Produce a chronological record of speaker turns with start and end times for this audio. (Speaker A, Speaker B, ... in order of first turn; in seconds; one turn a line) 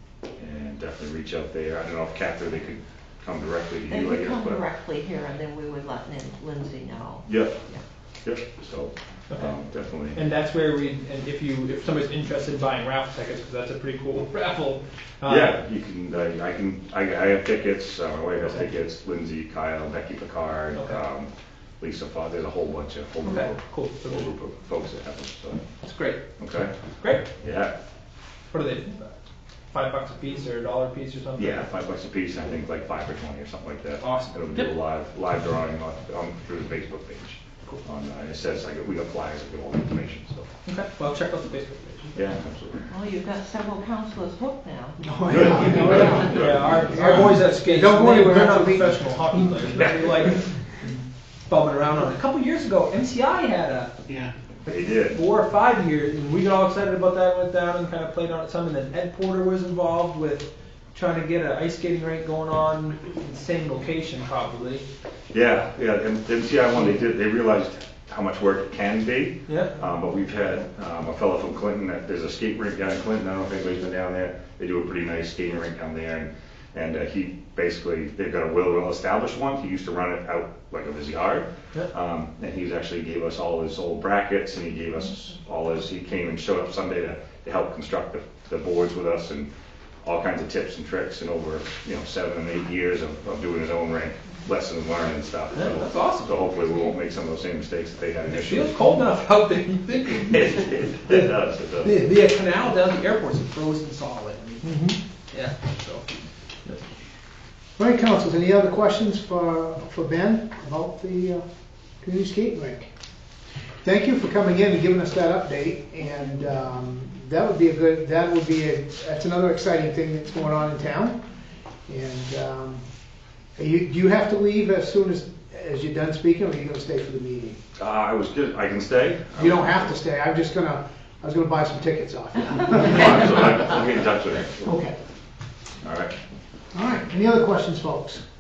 Speaker A: 0.4-4.6
Speaker B: 3.9-7.8
Speaker A: 7.3-7.6
Speaker A: 8.2-10.2
Speaker C: 10.1-15.6
Speaker A: 15.2-25.6
Speaker C: 20.7-21.0
Speaker C: 23.3-24.3
Speaker C: 25.8-26.2
Speaker A: 26.4-26.7
Speaker C: 27.0-27.3
Speaker A: 27.3-27.7
Speaker C: 28.5-29.1
Speaker C: 29.7-31.6
Speaker A: 31.4-40.5
Speaker C: 34.0-34.7
Speaker C: 40.7-42.3
Speaker A: 42.2-42.9
Speaker B: 42.9-46.4
Speaker D: 45.0-49.9
Speaker A: 45.3-47.1
Speaker C: 46.3-50.6
Speaker C: 51.5-54.0
Speaker A: 54.7-55.2
Speaker C: 54.7-64.8
Speaker A: 65.3-89.5
Speaker C: 69.5-69.7
Speaker A: 90.0-99.1
Speaker C: 95.5-96.6
Speaker C: 98.3-101.3
Speaker A: 100.2-102.0
Speaker C: 101.8-106.1
Speaker D: 107.8-111.4
Speaker D: 112.0-112.9
Speaker D: 113.8-121.2
Speaker D: 121.9-122.8
Speaker D: 123.6-127.6
Speaker A: 127.8-129.9
Speaker D: 129.4-133.5
Speaker A: 132.7-134.8
Speaker D: 134.6-134.9
Speaker A: 135.8-136.1
Speaker D: 136.7-138.2